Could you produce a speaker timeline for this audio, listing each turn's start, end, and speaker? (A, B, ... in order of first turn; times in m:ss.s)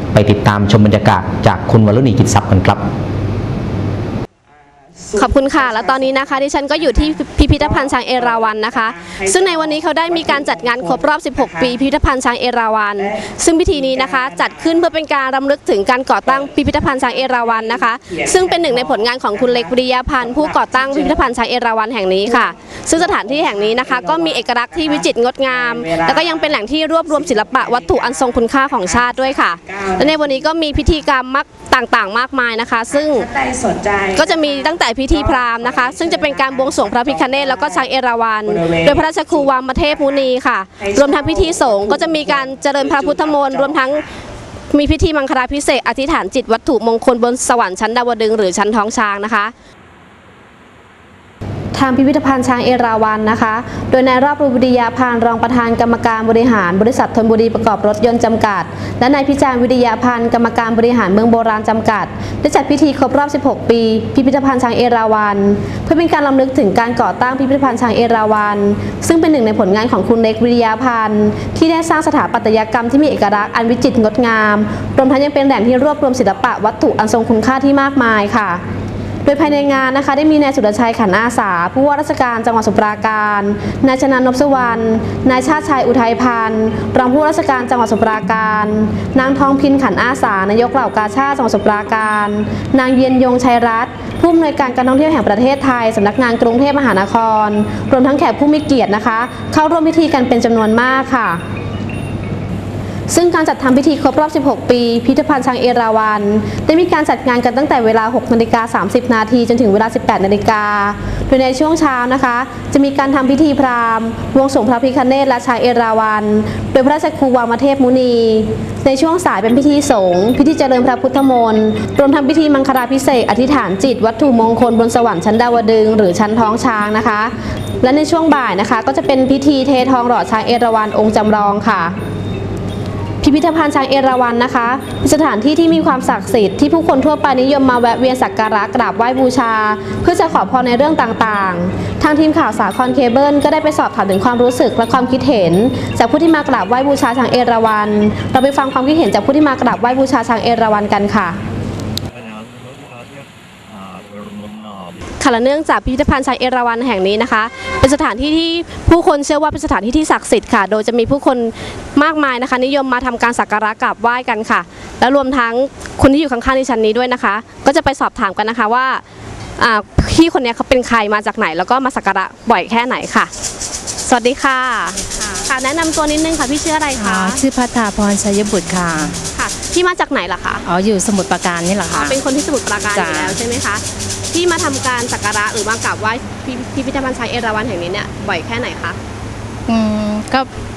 0:00.1-0:02.8 A
0:05.0-0:11.8 B
0:05.2-0:33.3 C
0:13.0-0:14.9 B
0:16.3-0:21.3 B
0:22.3-0:26.6 B
0:27.1-0:30.4 B
0:33.0-0:37.9 B
0:34.1-0:44.0 C
0:38.5-0:40.3 B
0:40.8-0:44.0 B
0:44.7-0:49.5 C
0:51.7-1:18.6 C
1:19.2-1:41.4 C
1:43.1-2:12.0 C
2:13.2-2:31.4 C
2:35.2-2:49.0 C
2:49.6-2:53.3 C
2:54.0-2:57.4 C
2:57.0-2:59.2 D
2:59.4-3:00.6 C
3:00.6-3:02.2 D
3:01.9-3:09.0 C
3:03.0-3:03.4 D
3:09.7-3:10.5 D